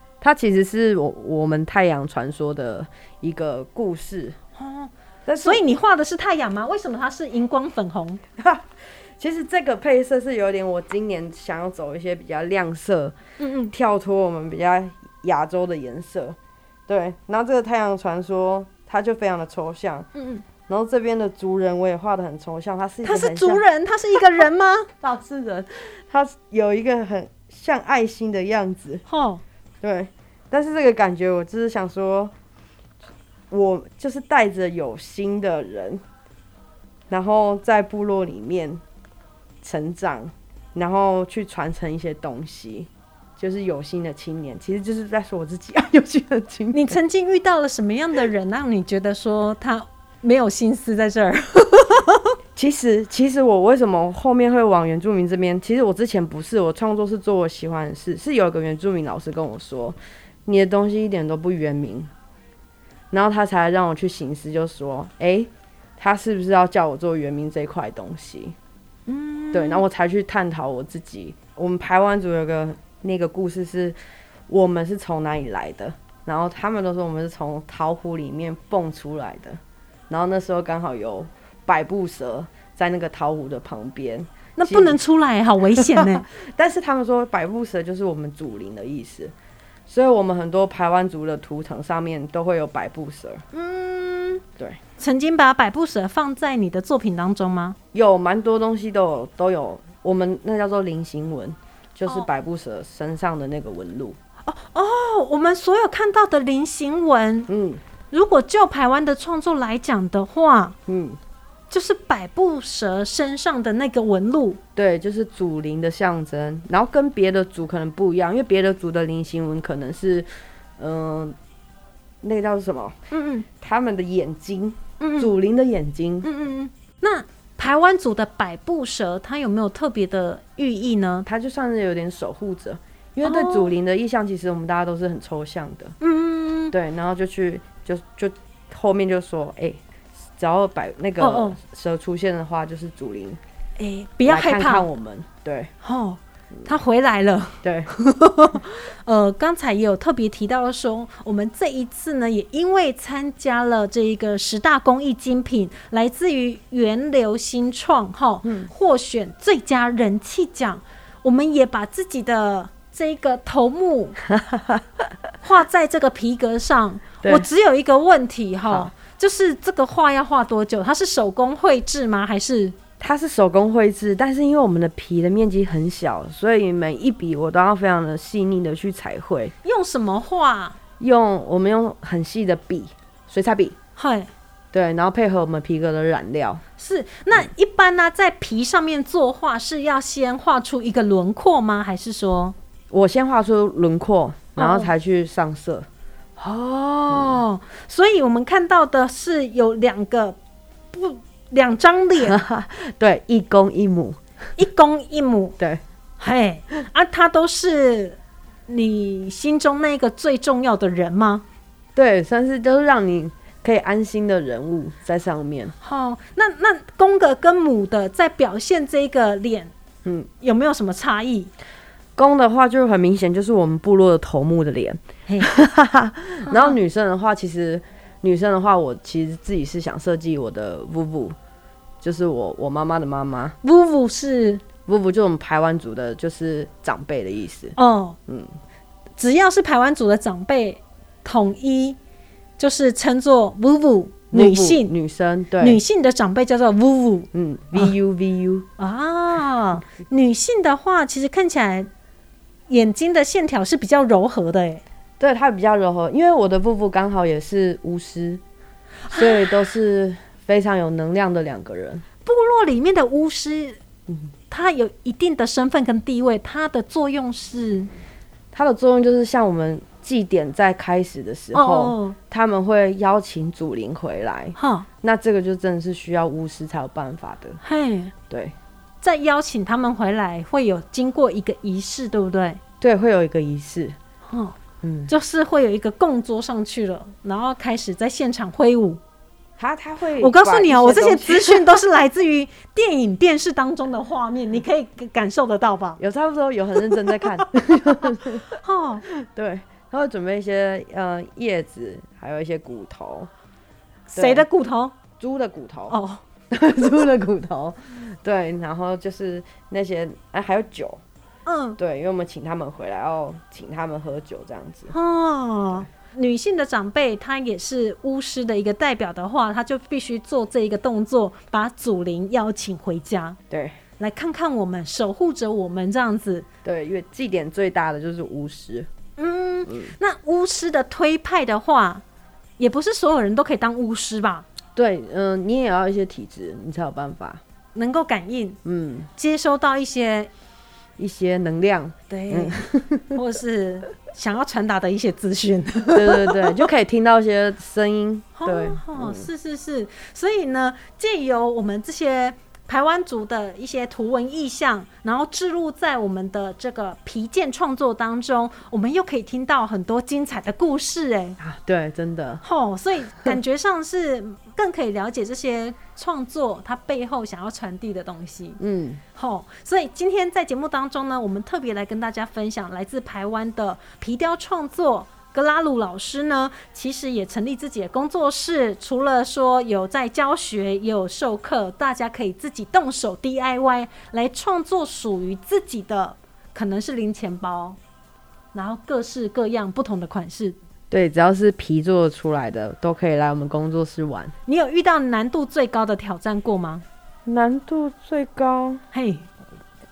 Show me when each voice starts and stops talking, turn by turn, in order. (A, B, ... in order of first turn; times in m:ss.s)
0:00.2-0:04.4 A
0:04.6-0:08.2 B
0:05.2-0:05.6 A
0:08.4-0:08.6 A
0:09.2-0:13.2 A
0:13.4-0:13.7 B
0:13.7-0:16.4 A
0:16.9-0:20.1 A
0:20.2-0:20.4 B
0:20.7-0:23.6 A
0:23.0-0:24.9 B
0:25.0-0:29.0 A
0:29.1-0:29.4 B
0:29.8-0:32.3 A
0:33.5-0:36.0 A
0:37.1-0:38.8 A
0:39.6-0:47.0 A
0:46.7-0:52.3 B
0:52.6-1:02.1 A
1:03.1-1:08.6 A
1:09.1-1:09.8 B
1:09.5-1:14.0 A
1:14.5-1:19.6 A
1:20.1-1:25.0 A
1:24.6-1:26.2 B
1:25.7-1:29.3 A
1:29.9-1:33.4 A
1:33.5-1:34.4 B
1:35.0-1:37.8 B
1:37.9-1:44.2 A
1:44.4-1:47.5 B
1:47.5-1:47.8 A
1:48.1-1:50.8 B
1:50.9-1:51.2 A
1:51.7-1:54.6 B
1:54.8-2:01.4 A
2:02.2-2:03.0 A
2:03.1-2:03.4 B
2:03.6-2:06.3 A
2:05.0-2:05.3 B
2:06.2-2:11.3 B
2:11.2-2:16.0 A
2:13.2-2:13.7 B
2:16.0-2:16.7 B
2:16.7-2:19.8 A
2:20.3-2:23.4 A
2:21.2-2:21.6 B
2:23.8-2:24.9 B
2:24.2-2:25.7 A
2:25.8-2:44.2 B
2:27.6-2:27.9 A
2:38.4-2:38.7 A
2:44.3-2:44.8 A
2:45.4-2:52.8 B
2:48.6-2:48.9 A
2:53.0-2:59.5 A
2:59.6-3:00.8 B
3:01.0-3:03.7 A
3:04.0-3:04.3 B
3:04.7-3:06.6 A
3:06.8-3:12.5 B
3:12.9-3:15.9 A
3:14.6-3:14.9 B
3:16.4-3:20.4 B
3:17.1-3:17.4 A
3:20.9-3:22.4 B
3:22.2-3:24.2 A
3:24.6-3:25.6 B
3:26.2-3:31.4 B
3:32.0-3:35.7 A
3:35.8-3:39.7 B
3:40.4-3:41.5 B
3:42.2-3:51.4 A
3:46.4-3:46.8 B
3:52.0-3:53.6 A
3:53.6-3:54.6 B
3:54.8-3:57.7 A
3:57.8-3:58.2 B
3:59.2-4:02.0 B
4:02.6-4:04.9 B
4:04.3-4:05.8 A
4:05.6-4:07.9 B
4:07.3-4:08.7 A
4:08.8-4:11.9 B
4:12.7-4:14.8 B
4:15.2-4:18.4 A
4:19.1-4:22.0 A
4:19.1-4:19.4 B
4:22.2-4:23.8 B
4:24.5-4:27.9 B
4:28.5-4:37.6 A
4:31.5-4:32.2 B
4:34.6-4:34.9 B
4:37.6-4:38.1 B
4:38.3-4:38.5 A
4:39.0-4:42.6 B
4:42.8-4:44.0 A
4:44.3-4:44.6 B
4:44.8-4:45.1 A
4:45.1-4:49.0 B
4:49.6-4:51.9 A
4:50.2-4:56.0 B
4:56.0-4:58.4 A
4:56.8-4:57.4 B
4:58.0-4:59.0 B
4:59.0-5:03.3 A
5:04.1-5:04.9 B
5:04.1-5:04.4 A
5:05.2-5:06.0 A
5:05.9-5:06.2 B
5:06.5-5:11.0 A
5:11.4-5:11.8 B
5:11.8-5:14.9 A
5:14.9-5:23.4 B
5:23.5-5:23.8 A
5:24.0-5:26.5 B
5:26.6-5:28.9 A
5:29.2-5:32.0 B
5:29.7-5:29.9 A
5:32.6-5:34.4 B
5:34.7-5:37.4 A
5:37.7-5:38.6 B
5:38.6-5:39.1 A
5:39.2-5:40.3 B
5:41.0-5:43.2 A
5:42.1-5:46.5 B
5:45.9-5:49.3 A
5:48.4-6:01.4 B
6:01.4-6:02.4 A
6:02.4-6:08.6 B
6:08.6-6:09.0 A
6:09.1-6:27.8 B
6:28.5-6:30.6 B
6:30.9-6:34.3 A
6:34.4-6:36.8 B
6:37.2-6:38.8 A
6:38.9-6:39.3 B